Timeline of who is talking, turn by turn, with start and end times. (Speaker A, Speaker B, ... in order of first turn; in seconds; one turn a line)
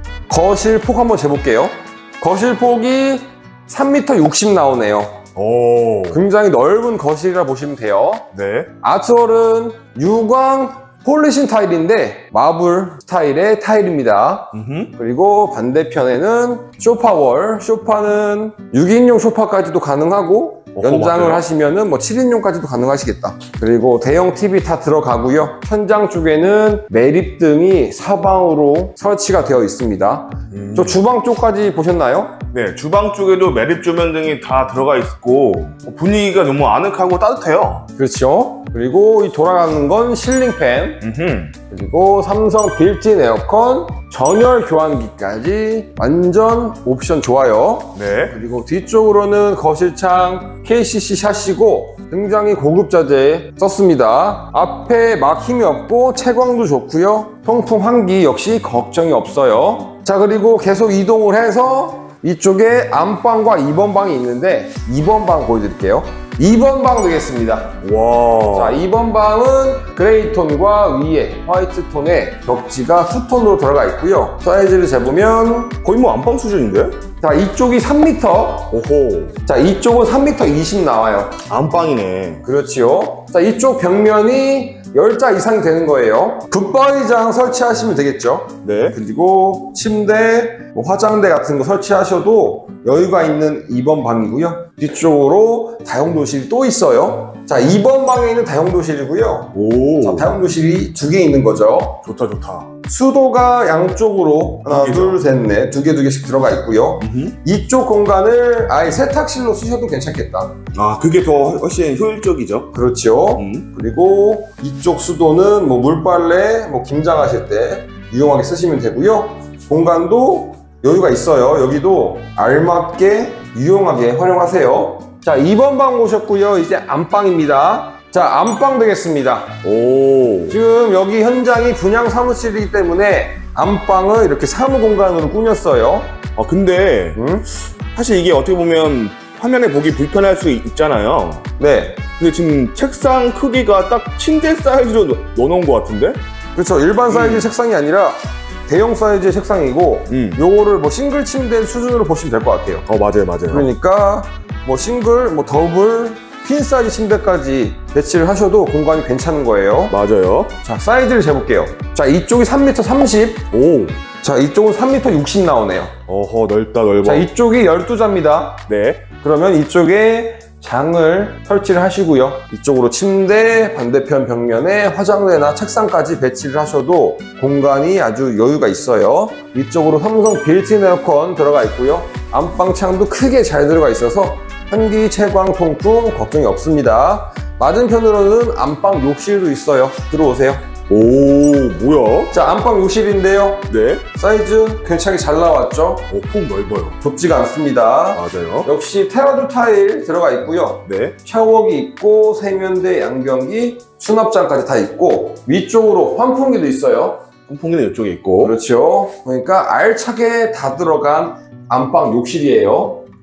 Speaker A: 0.3-5.2
Speaker B: 5.4-6.2
Speaker A: 6.1-8.3
Speaker B: 8.3-8.7
Speaker A: 8.8-32.4
Speaker B: 14.5-14.9
Speaker B: 20.8-21.5
Speaker B: 30.5-31.0
Speaker B: 32.5-37.9
Speaker A: 38.0-41.0
Speaker B: 41.0-41.5
Speaker A: 41.7-67.8
Speaker B: 48.0-48.4
Speaker B: 67.8-68.8
Speaker A: 68.5-75.8
Speaker B: 75.8-77.0
Speaker A: 77.2-78.7
Speaker B: 78.7-79.4
Speaker A: 79.5-81.4
Speaker B: 81.5-82.4
Speaker A: 82.4-102.0
Speaker B: 88.6-89.0
Speaker B: 99.5-100.3
Speaker B: 102.0-102.7
Speaker A: 102.8-110.6
Speaker B: 104.7-105.2
Speaker B: 107.0-107.3
Speaker B: 110.7-112.7
Speaker A: 112.7-129.6
Speaker B: 113.4-113.7
Speaker B: 129.6-130.6
Speaker A: 130.5-136.2
Speaker B: 136.4-137.2
Speaker A: 137.2-137.5
Speaker B: 137.9-141.5
Speaker A: 141.6-142.0
Speaker B: 142.1-146.2
Speaker A: 146.6-152.8
Speaker B: 147.1-147.5
Speaker B: 150.1-150.4
Speaker B: 152.9-153.7
Speaker A: 153.5-159.9
Speaker B: 159.9-160.5
Speaker A: 160.6-163.5
Speaker B: 163.5-164.0
Speaker A: 164.2-165.9
Speaker B: 166.1-167.3
Speaker A: 167.0-190.7
Speaker B: 168.7-169.0
Speaker B: 190.9-192.3
Speaker A: 192.3-196.1
Speaker B: 193.7-194.0
Speaker B: 196.1-197.0
Speaker A: 197.0-207.2
Speaker B: 198.2-198.7
Speaker B: 200.9-201.2
Speaker B: 207.5-208.6
Speaker A: 208.4-213.1